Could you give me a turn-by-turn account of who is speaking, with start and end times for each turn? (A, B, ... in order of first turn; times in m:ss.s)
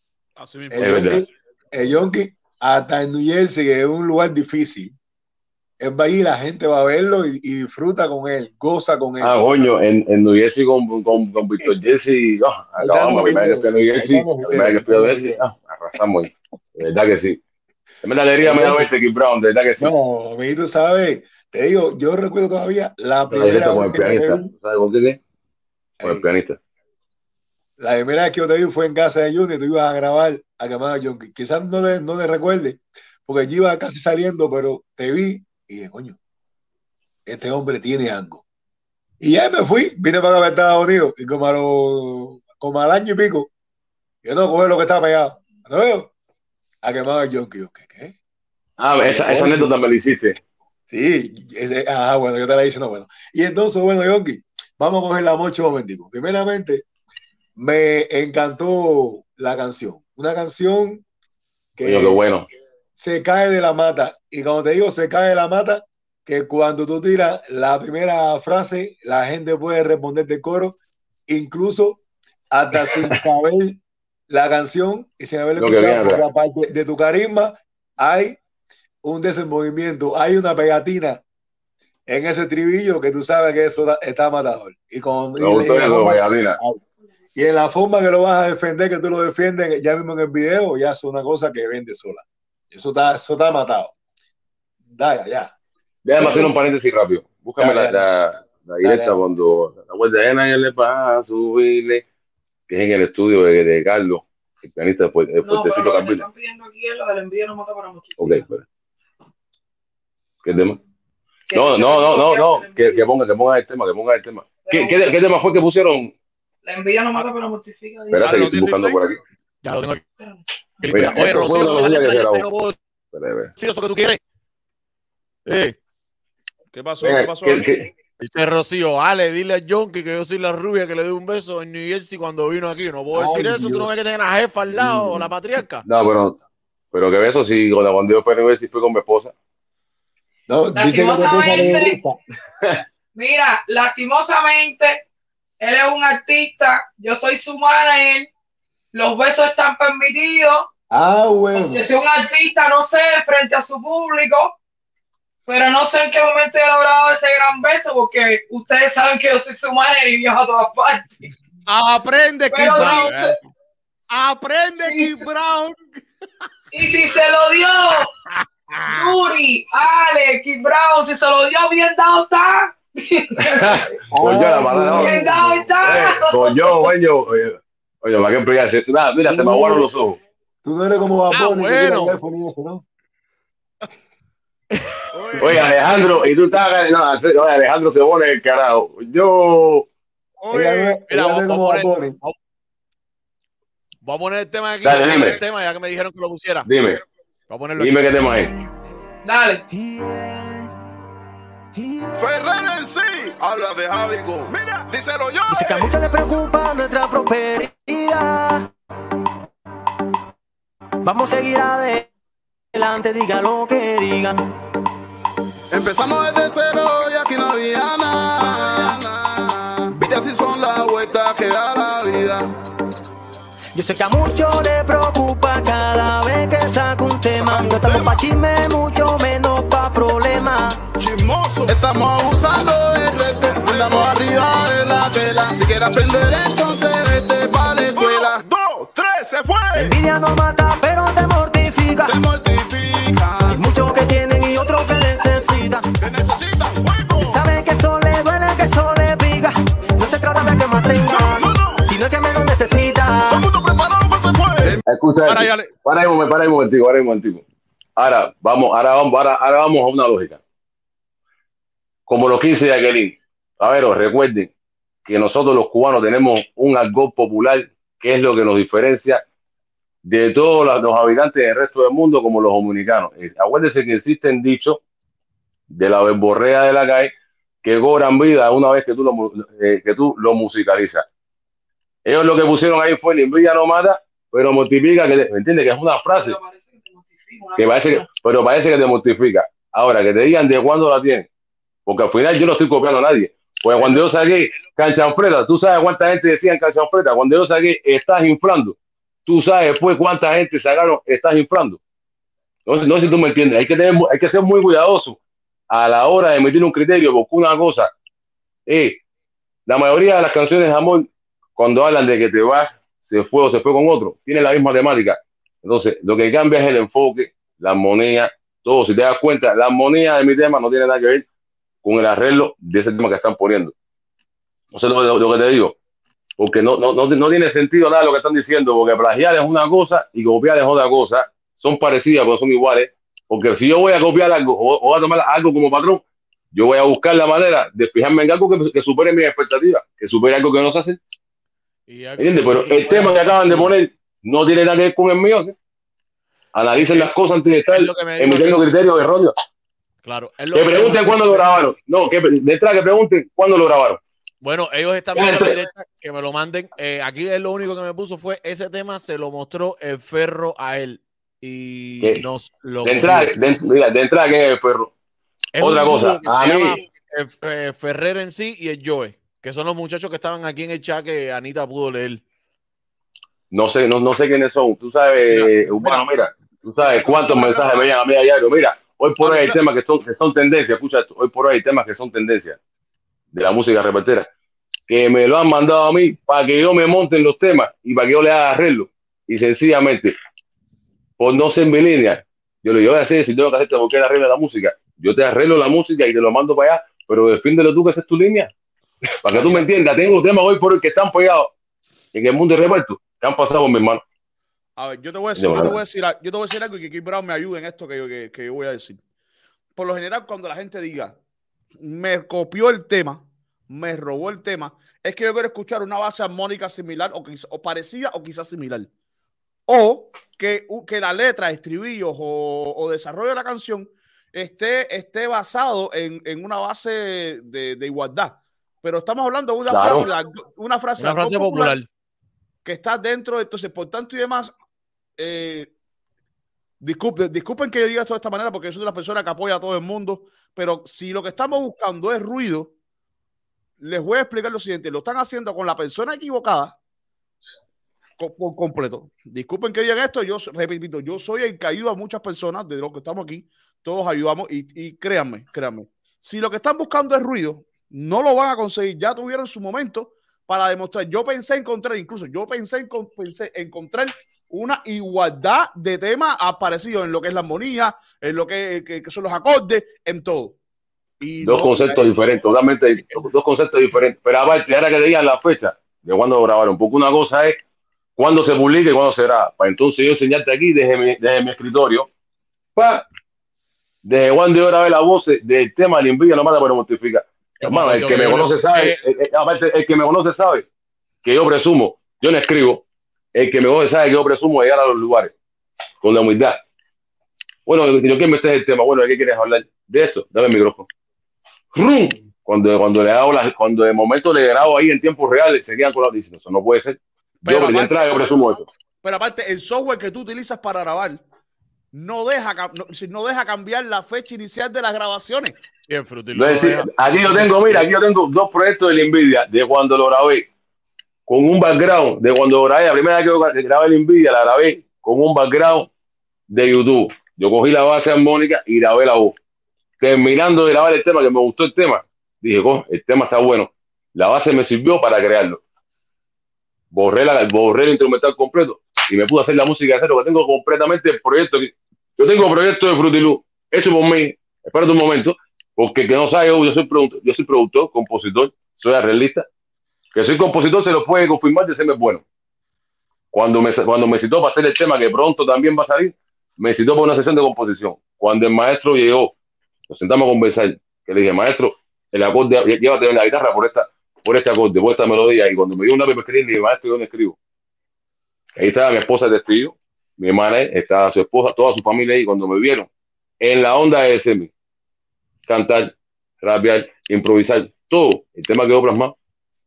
0:00.4-0:01.2 A
0:00.7-0:04.9 B
0:00.8-0:01.2 C
0:05.8-0:09.6 B
0:09.2-0:17.4 C
0:12.8-0:15.4 B
0:18.0-0:19.9 C
0:18.4-0:18.9 B
0:19.8-0:24.5 B
0:23.3-0:25.2 C
0:26.0-0:26.3 B
0:26.0-0:26.6 C
0:27.8-0:36.2 B
0:37.3-0:38.4 B
0:39.2-0:43.5 B
0:44.2-0:46.1 B
0:46.8-0:48.1 B
0:48.8-0:50.4 C
0:49.0-0:50.0 B
0:50.9-0:56.9 B
0:57.6-1:01.0 B
1:01.8-1:02.2 B
1:01.8-1:02.4 C
1:03.0-1:10.8 B
1:11.3-1:18.4 B
1:15.6-1:16.2 C
1:19.0-1:21.2 B
1:22.1-1:26.8 B
1:25.4-1:26.6 C
1:27.3-1:33.9 B
1:34.9-1:35.5 B
1:36.0-1:42.0 C
1:36.2-1:36.5 B
1:37.6-1:38.0 B
1:38.8-1:39.2 B
1:42.7-1:46.3 C
1:45.4-1:48.4 D
1:48.2-1:48.6 C
1:50.4-1:50.8 C
1:51.5-1:53.0 D
1:51.5-1:56.1 C
1:54.6-1:55.1 D
1:56.6-1:58.4 D
1:58.1-1:59.2 C
1:58.2-1:59.0 A
1:59.6-2:00.0 E
2:00.8-2:02.8 E
2:00.9-2:02.5 C
2:03.1-2:03.5 C
2:03.6-2:04.2 E
2:05.4-2:05.8 E
2:06.7-2:07.7 A
2:07.0-2:07.9 C
2:08.2-2:15.8 E
2:13.1-2:13.9 B
2:14.8-2:15.2 B
2:15.8-2:16.4 C
2:16.9-2:19.3 C
2:20.5-2:22.2 B
2:20.7-2:22.0 D
2:23.1-2:25.0 D
2:25.6-2:28.3 D
2:28.9-2:30.7 D
2:30.9-2:31.9 B
2:31.5-2:34.5 D
2:35.4-2:41.2 D
2:41.7-2:43.2 A
2:42.5-2:43.3 D
2:42.8-2:43.3 E
2:44.1-2:46.0 A
2:44.8-2:45.2 D
2:46.7-2:48.1 D
2:48.9-2:53.8 D
2:53.4-2:55.2 C
2:54.1-2:55.7 B
2:54.9-2:56.9 D
2:55.8-3:00.2 C
2:59.2-2:59.9 B
3:00.6-3:02.8 B
3:01.3-3:02.2 E
3:05.1-3:06.0 A
3:05.4-3:09.9 C
3:10.4-3:11.0 A
3:10.5-3:12.2 B
3:11.1-3:12.3 E
3:14.0-3:16.7 E
3:14.8-3:15.4 C
3:16.6-3:17.0 C
3:17.5-3:18.0 E
3:17.8-3:18.5 C
3:19.2-3:19.6 D
3:19.7-3:20.7 F
3:21.7-3:22.2 F
3:22.1-3:25.9 G
3:25.5-3:28.7 F
3:31.0-3:32.1 F
3:32.7-3:34.4 F
3:35.7-3:42.5 G
3:43.7-3:50.8 F
3:47.3-3:48.2 G
3:51.0-4:00.0 G
3:59.7-4:02.2 F
4:02.0-4:04.0 G
4:03.5-4:05.9 F
4:06.0-4:07.4 G
4:07.1-4:13.5 F
4:11.0-4:11.8 G
4:13.3-4:14.8 G
4:14.9-4:17.4 C
4:15.3-4:15.7 A
4:18.0-4:20.4 C
4:22.1-4:24.5 C
4:25.0-4:29.2 C
4:30.0-4:34.8 C
4:35.7-4:37.1 C
4:37.6-4:41.0 C
4:42.0-4:46.4 C
4:46.1-4:48.1 D
4:47.6-4:51.3 C
4:51.9-5:01.8 C
5:02.6-5:05.2 C
5:05.7-5:07.9 C
5:08.7-5:09.0 C
5:09.6-5:21.3 C
5:21.8-5:23.7 C
5:24.7-5:25.8 C
5:26.4-5:41.0 C
5:41.9-5:43.8 E
5:42.2-5:45.6 C
5:46.5-5:49.3 C
5:46.7-5:47.1 E
5:47.7-5:48.6 E
5:50.0-5:51.6 E
5:50.5-5:54.0 C
5:54.4-6:03.3 E
5:55.1-5:55.6 C
6:02.8-6:04.9 C
6:05.5-6:12.2 E
6:05.6-6:06.8 C
6:13.5-6:22.6 C
6:15.3-6:16.0 A
6:16.8-6:17.8 A
6:19.2-6:19.6 A
6:23.3-6:24.3 C
6:24.9-6:30.1 C
6:31.2-6:38.5 C
6:39.2-6:41.5 C
6:39.3-6:39.7 A
6:42.1-6:44.0 C
6:44.8-6:49.0 A
6:45.4-6:45.8 C
6:49.8-6:51.2 A
6:51.8-6:58.9 A
6:59.7-7:11.8 A
7:09.7-7:10.1 C
7:11.0-7:11.9 E
7:12.6-7:14.5 A
7:15.2-7:15.7 A
7:16.8-7:22.7 A
7:23.8-7:26.8 A
7:28.2-7:50.6 A
7:51.2-7:52.1 A
7:51.4-7:57.6 C
7:58.2-8:02.1 C
8:02.8-8:03.0 C
8:04.0-8:10.6 C
8:07.6-8:09.0 E
8:11.2-8:12.8 C
8:13.3-8:15.3 C
8:16.0-8:16.6 C
8:17.6-8:20.9 C
8:21.7-8:28.7 C
8:27.4-8:28.1 A
8:29.0-8:31.2 A
8:31.9-8:35.6 A
8:35.9-8:37.9 E
8:36.3-8:40.5 C
8:41.3-8:45.9 C
8:46.5-8:49.4 C
8:50.0-8:55.6 C
8:56.9-9:09.4 C
9:10.1-9:12.2 C
9:13.3-9:19.3 C
9:19.9-9:27.4 C
9:28.6-9:32.9 C
9:33.4-9:34.5 C
9:35.4-9:39.1 C